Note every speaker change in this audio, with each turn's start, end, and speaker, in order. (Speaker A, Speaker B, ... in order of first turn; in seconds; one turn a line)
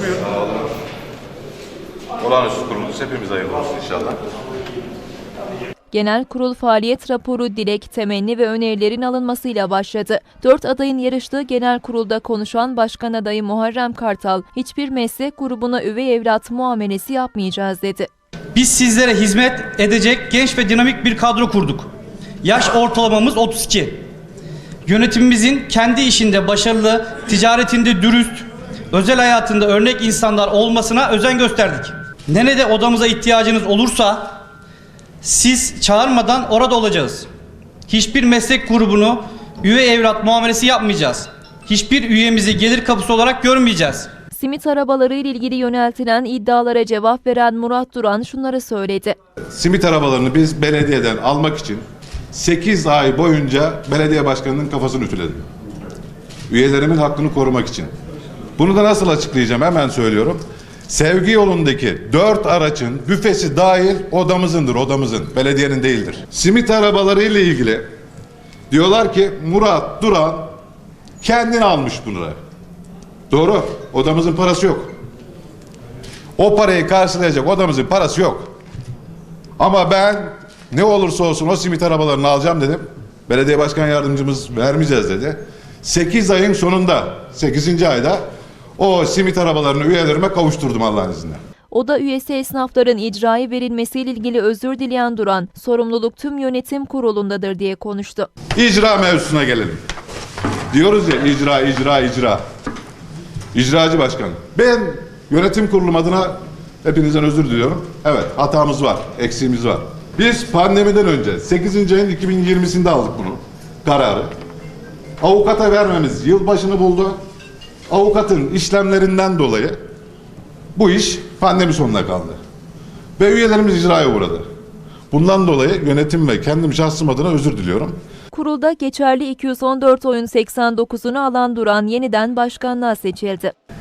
Speaker A: 0.1-0.6
Speaker A: 2.2-4.2
Speaker B: 5.9-18.1
Speaker C: 18.5-21.9
Speaker C: 22.4-24.0
Speaker C: 24.9-34.4
Speaker C: 35.2-37.3
Speaker C: 37.9-44.1
Speaker B: 44.3-49.1
Speaker A: 49.5-55.4
Speaker A: 56.5-57.9
Speaker A: 58.6-67.9
Speaker A: 68.7-70.5
Speaker A: 71.2-72.4
Speaker A: 73.3-74.9
Speaker A: 76.4-78.5
Speaker A: 79.6-88.2
Speaker A: 88.8-91.4
Speaker B: 91.7-98.3
Speaker A: 98.5-99.8
Speaker A: 100.7-102.4
Speaker A: 103.5-114.3
Speaker A: 115.2-117.2
Speaker A: 117.9-119.8
Speaker A: 120.7-122.4
Speaker A: 123.2-124.4
Speaker A: 125.1-128.0
Speaker B: 128.3-133.5